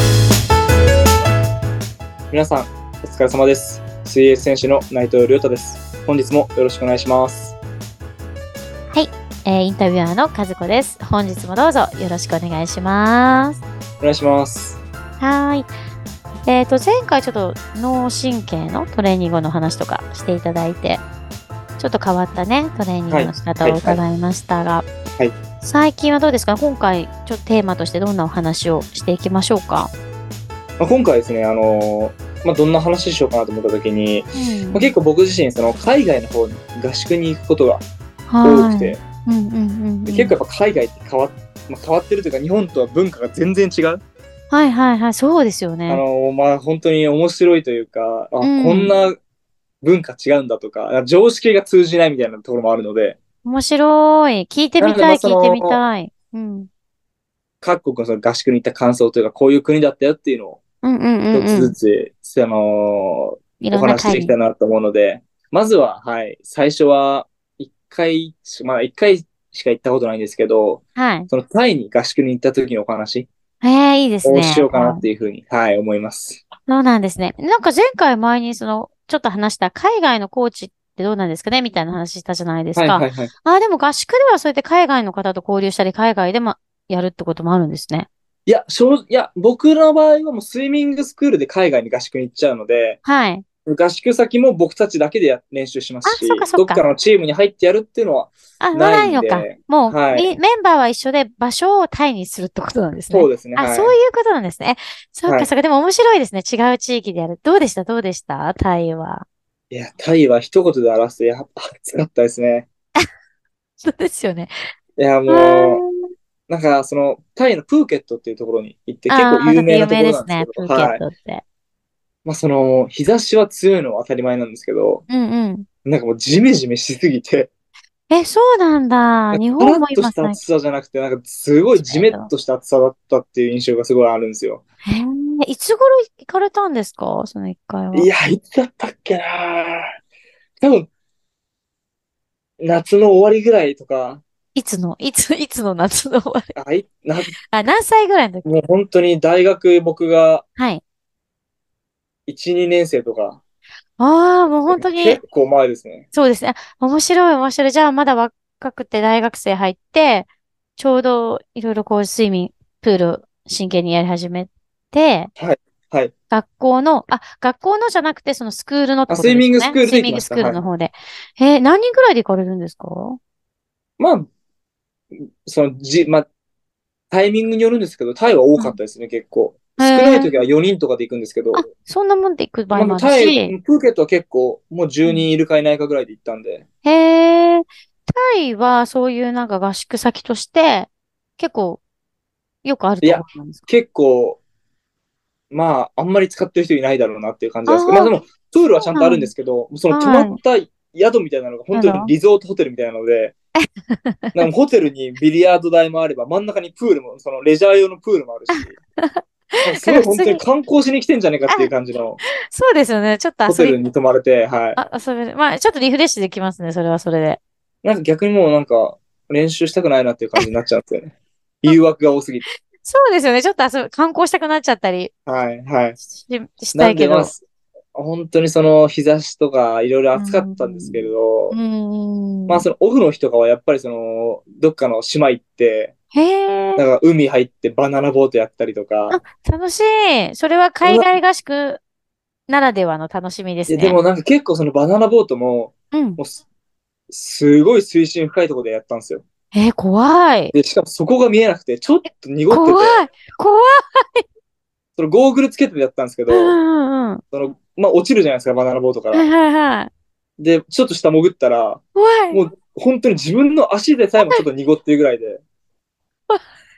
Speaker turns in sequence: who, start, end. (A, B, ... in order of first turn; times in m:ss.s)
0:02.3-0:07.6 A
0:08.9-0:13.6 B
0:14.0-0:14.8 A
0:15.2-0:15.7 B
0:16.4-0:21.0 B
0:21.8-0:24.9 B
0:23.1-0:24.0 A
0:25.6-0:29.9 B
0:30.8-0:37.8 A
0:34.4-0:34.9 B
0:38.3-0:40.3 B
0:38.4-0:39.0 A
0:40.1-0:44.0 A
0:44.5-0:46.0 B
0:45.9-0:49.2 A
0:48.4-0:48.9 B
0:49.8-0:53.2 A
0:53.4-0:56.7 B
0:54.8-0:55.8 A
0:57.6-1:00.6 A
1:00.8-1:01.8 B
1:01.3-1:13.3 A
1:03.6-1:04.3 B
1:11.0-1:11.3 B
1:13.6-1:15.0 B
1:14.2-1:16.4 A
1:16.7-1:28.1 B
1:22.8-1:23.3 A
1:28.5-1:33.0 A
1:33.0-1:33.4 B
1:33.7-1:40.4 A
1:36.0-1:36.8 B
1:38.6-1:49.3 B
1:43.1-1:44.0 A
1:49.7-1:52.7 A
1:53.8-1:54.5 B
1:55.0-1:55.8 A
1:55.3-1:55.9 B
1:56.5-2:01.0 A
1:59.1-2:01.4 B
2:02.2-2:05.0 A
2:05.1-2:05.7 B
2:05.8-2:07.5 A
2:08.1-2:10.4 B
2:09.3-2:14.6 A
2:11.8-2:12.3 B
2:14.8-2:18.1 B
2:17.9-2:19.9 A
2:20.6-2:20.9 A
2:22.6-2:24.2 A
2:24.6-2:26.5 B
2:26.6-2:27.4 A
2:27.4-2:28.4 B
2:28.4-2:30.4 A
2:30.6-2:30.8 B
2:32.3-2:33.4 A
2:34.0-2:35.2 B
2:34.7-2:36.1 A
2:36.1-2:45.3 B
2:45.4-2:46.1 A
2:46.3-2:53.2 B
2:49.1-2:50.6 A
2:54.0-2:54.3 A
2:55.4-2:56.3 A
2:57.1-3:01.7 A
2:59.8-3:00.3 B
3:01.6-3:03.6 B
3:02.7-3:06.6 A
3:06.8-3:11.8 B
3:12.6-3:13.6 B
3:13.0-3:14.4 A
3:15.5-3:23.4 A
3:17.7-3:18.2 B
3:18.8-3:19.3 B
3:19.9-3:20.4 B
3:21.7-3:22.1 B
3:23.6-3:24.4 B
3:24.4-3:28.7 A
3:28.5-3:30.4 B
3:29.6-3:32.2 A
3:32.5-3:33.8 B
3:33.5-3:34.8 A
3:34.8-3:37.4 B
3:37.8-3:42.5 A
3:42.8-3:45.1 B
3:45.3-3:46.0 A
3:46.1-3:47.3 B
3:46.7-3:47.4 A
3:48.0-3:51.6 A
3:50.2-3:52.7 B
3:52.5-3:55.9 A
3:56.1-3:56.8 B
3:56.8-3:59.2 A
3:59.1-4:01.8 B
4:00.8-4:01.1 A
4:02.5-4:04.0 B
4:03.7-4:06.4 A
4:05.9-4:06.2 B
4:07.1-4:09.2 A
4:09.5-4:10.5 B
4:10.5-4:13.0 A
4:12.5-4:14.2 B
4:15.0-4:16.6 A
4:16.3-4:17.2 B
4:17.3-4:19.3 A
4:19.1-4:19.9 B
4:20.4-4:25.4 A
4:22.0-4:22.4 B
4:24.2-4:24.4 B